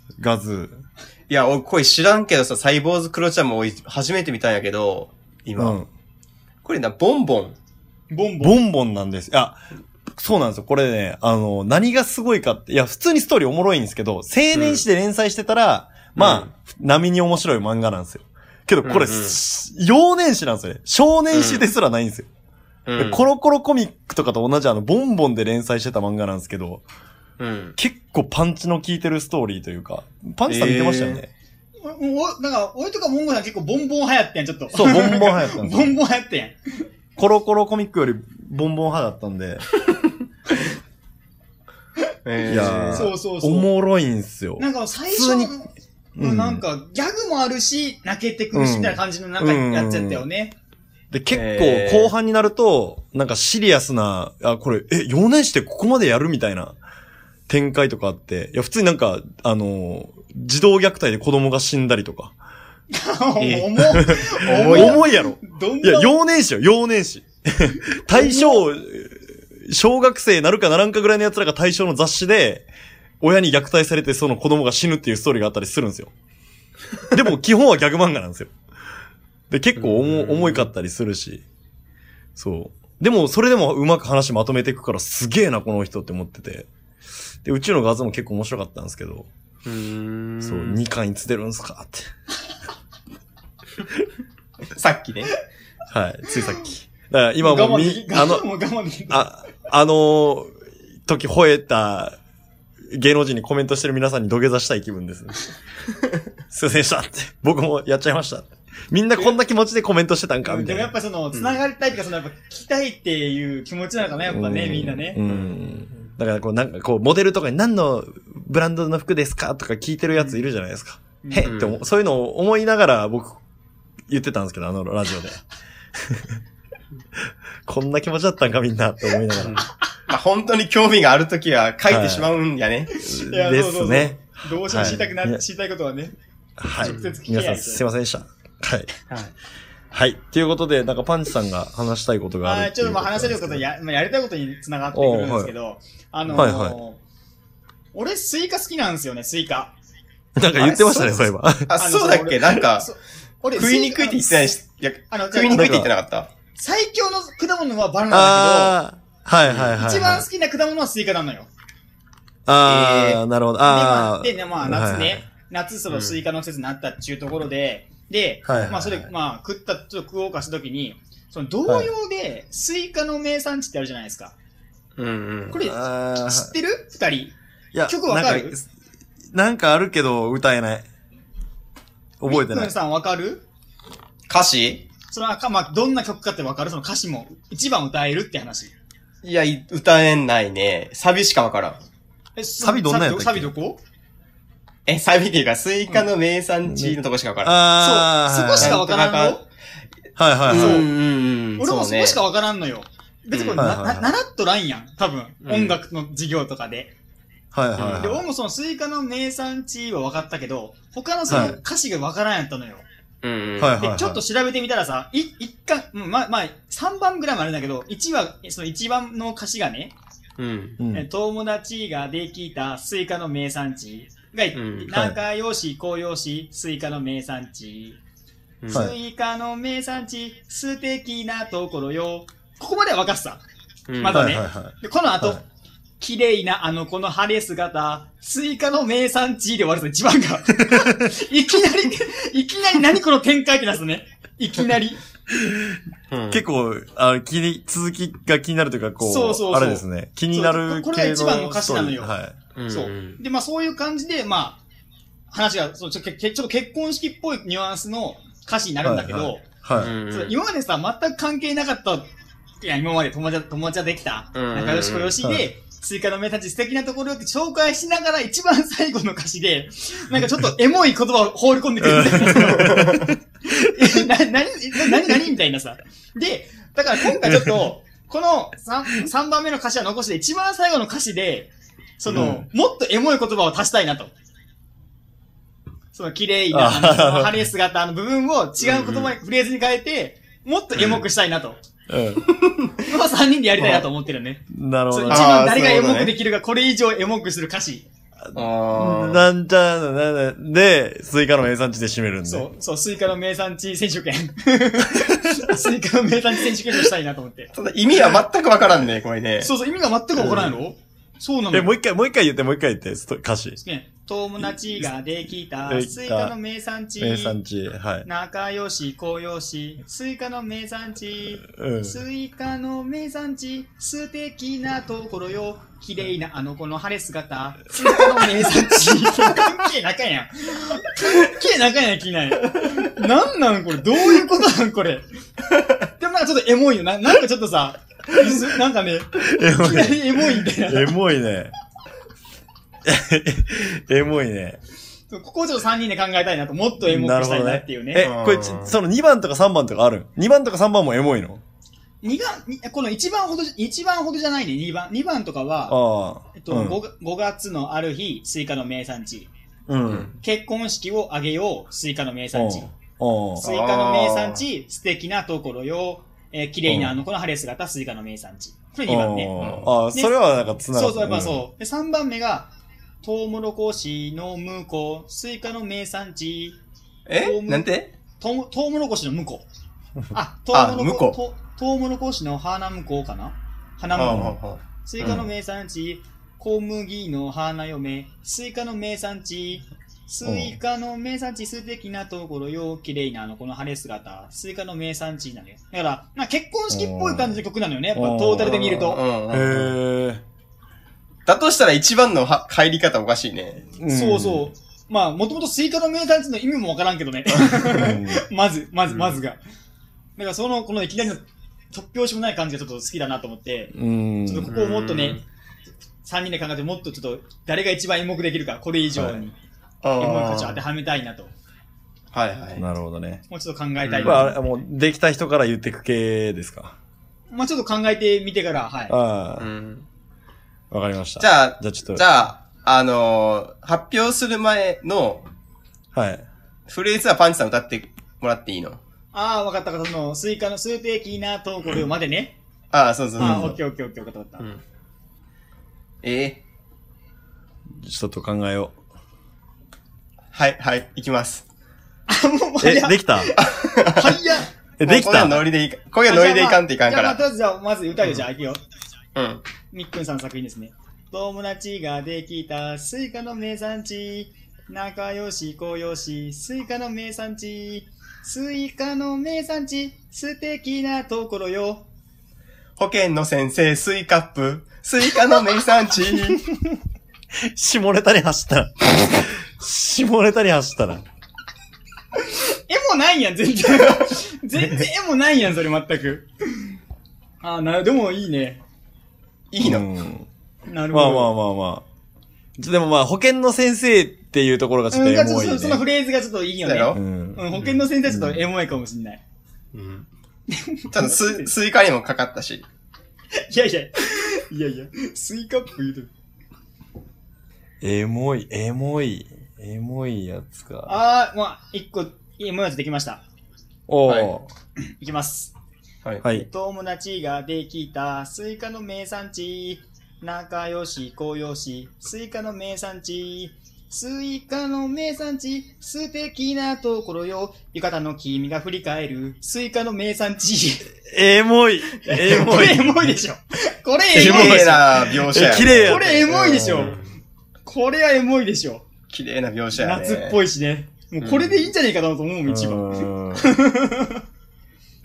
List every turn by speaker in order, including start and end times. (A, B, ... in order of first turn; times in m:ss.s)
0:00.2-0:00.8 A
0:01.3-0:05.8 B
0:05.6-0:05.9 A
0:06.6-0:07.6 B
0:08.1-0:08.6 C
0:08.4-0:09.6 A
0:10.1-0:22.3 A
0:14.5-0:14.8 B
0:16.2-0:16.5 B
0:18.8-0:19.4 B
0:21.3-0:21.6 B
0:22.9-0:23.2 B
0:23.0-0:26.8 A
0:27.4-0:27.8 B
0:27.8-0:31.3 A
0:30.5-0:31.2 B
0:31.8-0:36.6 C
0:34.7-0:36.0 A
0:37.2-0:39.6 A
0:42.3-0:43.1 B
0:42.5-0:45.5 A
0:42.9-0:43.7 C
0:44.6-0:50.6 C
0:46.2-0:46.6 A
0:48.5-0:50.3 A
0:51.1-0:56.8 A
0:51.3-0:52.1 B
0:57.5-1:02.4 A
1:02.9-1:06.2 C
1:03.4-1:05.0 B
1:03.9-1:12.7 A
1:08.1-1:08.6 C
1:13.2-1:16.1 A
1:17.1-1:18.5 A
1:19.5-1:21.4 A
1:19.8-1:20.7 B
1:22.4-1:26.7 A
1:27.4-1:29.3 A
1:29.6-1:30.8 B
1:30.4-1:32.1 A
1:34.7-1:35.3 B
1:35.9-1:38.5 A
1:37.4-1:39.3 C
1:39.1-1:42.2 A
1:42.9-1:45.4 A
1:46.5-1:50.9 A
1:50.4-1:55.2 C
1:51.3-1:51.6 B
1:54.2-2:03.4 A
1:55.2-1:55.6 B
2:01.2-2:01.6 C
2:01.4-2:01.8 B
2:04.1-2:05.4 A
2:06.0-2:06.4 A
2:07.7-2:09.7 A
2:09.4-2:12.9 B
2:11.9-2:12.3 A
2:12.9-2:16.2 C
2:13.0-2:15.4 A
2:16.6-2:18.9 A
2:16.8-2:17.8 C
2:19.9-2:23.7 A
2:22.4-2:27.0 C
2:24.9-2:25.5 A
2:26.3-2:26.8 A
2:27.9-2:29.7 C
2:30.4-2:31.7 A
2:30.6-2:32.9 B
2:31.8-2:34.6 C
2:33.5-2:36.3 B
2:35.1-2:35.9 C
2:35.5-2:35.9 A
2:36.6-2:38.8 C
2:38.1-2:40.3 A
2:39.8-2:41.5 C
2:42.5-2:45.2 A
2:42.6-2:43.2 B
2:43.6-2:54.4 C
2:45.9-2:46.2 B
2:48.4-2:49.1 A
2:51.7-2:51.9 A
2:55.0-2:55.6 B
2:55.5-2:57.3 C
2:55.5-2:56.5 A
2:57.7-2:58.7 A
2:57.9-2:58.6 C
2:59.3-3:00.8 A
3:02.2-3:02.8 A
3:02.3-3:03.4 C
3:04.3-3:04.8 B
3:05.1-3:08.7 C
3:09.2-3:11.8 B
3:12.4-3:13.8 C
3:12.6-3:13.5 A
3:14.9-3:17.6 B
3:16.6-3:18.8 A
3:17.8-3:19.4 C
3:18.6-3:19.4 B
3:20.2-3:20.9 A
3:20.4-3:22.2 B
3:20.5-3:20.9 C
3:21.6-3:26.9 C
3:23.3-3:23.6 B
3:23.6-3:24.2 A
3:25.4-3:25.8 B
3:27.5-3:28.2 A
3:27.8-3:28.1 B
3:27.9-3:32.8 C
3:31.3-3:31.5 B
3:31.3-3:31.6 A
3:33.2-3:33.8 B
3:33.6-3:34.2 A
3:33.8-3:40.0 C
3:40.4-3:40.8 B
3:40.8-3:41.1 A
3:40.9-3:48.0 C
3:44.6-3:44.9 B
3:44.9-3:45.2 A
3:48.6-3:48.9 B
3:48.7-3:53.4 C
3:48.7-3:49.0 A
3:53.9-3:54.2 B
3:54.0-3:55.4 C
3:54.1-3:55.4 A
3:56.0-4:05.0 C
4:06.1-4:06.4 B
4:06.3-4:12.4 A
4:09.0-4:12.1 C
4:12.6-4:13.2 B
4:12.7-4:14.6 C
4:15.3-4:19.5 C
4:18.8-4:19.9 A
4:19.8-4:20.4 B
4:20.1-4:22.1 C
4:22.6-4:44.1 C
4:24.3-4:25.1 B
4:25.2-4:25.5 A
4:31.8-4:33.2 A
4:32.3-4:33.1 B
4:42.1-4:42.4 A
4:45.9-4:51.6 C
4:46.5-4:47.4 A
4:48.6-4:49.2 B
4:50.8-4:51.0 B
4:51.9-4:52.3 A
4:52.4-4:52.7 B
4:52.9-4:57.9 C
4:54.5-4:55.3 A
4:55.1-4:56.1 B
4:58.2-5:02.5 A
4:58.4-4:59.3 B
5:02.3-5:07.5 C
5:07.5-5:09.5 B
5:09.4-5:11.7 C
5:10.1-5:10.6 A
5:11.5-5:13.6 A
5:13.6-5:17.4 C
5:15.7-5:16.4 A
5:17.0-5:18.1 A
5:18.0-5:35.1 C
5:21.5-5:22.0 A
5:36.0-5:40.9 C
5:39.2-5:41.5 A
5:42.8-5:44.6 A
5:45.1-5:48.1 C
5:46.8-5:51.4 A
5:48.0-5:48.8 B
5:52.0-5:55.8 C
5:55.7-5:56.8 A
5:56.3-5:59.3 C
5:59.7-6:00.1 A
5:59.9-6:00.1 B
6:00.2-6:02.7 C
6:02.3-6:03.4 A
6:03.4-6:09.4 C
6:03.4-6:04.4 B
6:06.7-6:07.0 A
6:08.9-6:11.4 A
6:09.4-6:09.7 B
6:10.7-6:12.5 C
6:13.0-6:16.6 C
6:17.1-6:17.9 B
6:17.2-6:19.5 C
6:20.1-6:39.0 C
6:20.5-6:21.2 B
6:23.9-6:25.2 B
6:30.2-6:30.6 A
6:36.7-6:37.4 A
6:38.0-6:40.2 A
6:38.4-6:39.7 B
6:41.3-6:43.7 B
6:43.8-6:44.5 A
6:43.9-6:49.4 C
6:47.5-6:48.2 A
6:48.9-6:49.2 B
6:50.2-6:53.7 C
6:53.7-6:54.5 A
6:54.2-6:55.2 C
6:54.5-6:55.2 B
6:56.0-6:59.4 C
6:59.8-7:00.6 B
7:00.0-7:01.3 C
7:02.1-7:02.6 B
7:02.6-7:03.2 A
7:03.3-7:04.4 C
7:03.8-7:04.3 B
7:04.0-7:06.8 A
7:07.3-7:09.0 C
7:08.9-7:09.5 A
7:09.4-7:09.9 B
7:10.7-7:12.1 A
7:11.2-7:15.3 B
7:15.9-7:16.3 A
7:16.7-7:18.8 B
7:19.1-7:22.4 C
7:22.7-7:23.6 B
7:23.2-7:24.5 C
7:23.2-7:23.6 A
7:26.0-7:26.4 B
7:27.8-7:28.8 A
7:30.3-7:31.4 B
7:32.1-7:34.5 C
7:32.6-7:33.4 A
7:33.5-7:34.2 B
7:34.8-7:35.5 A
7:34.8-7:37.2 B
7:36.0-7:38.6 C
7:39.2-7:39.4 B
7:39.7-7:51.9 C
7:52.8-7:56.4 B
7:57.5-8:01.0 A
8:02.7-8:06.7 C
8:07.4-8:08.6 C
8:09.5-8:09.9 B
8:09.6-8:10.3 A
8:10.7-8:11.3 C
8:10.9-8:11.8 A
8:12.6-8:15.8 A
8:14.9-8:19.2 C
8:16.6-8:17.0 B
8:16.9-8:18.4 A
8:19.7-8:20.1 B
8:20.5-8:21.5 C
8:20.9-8:22.6 B
8:23.5-8:26.1 C
8:27.8-8:31.0 A
8:30.9-8:33.2 C
8:33.9-8:34.5 A
8:34.1-8:34.3 B
8:34.9-8:35.5 C
8:36.3-8:50.9 C
8:51.1-8:53.1 A
8:52.1-8:54.9 C
8:54.1-8:57.0 A
8:54.1-8:56.1 B
8:55.5-8:57.0 C
8:56.7-8:57.1 B
8:57.6-8:58.8 C
8:59.1-9:00.4 B
8:59.8-9:04.2 C
9:01.2-9:01.7 B
9:02.5-9:03.5 A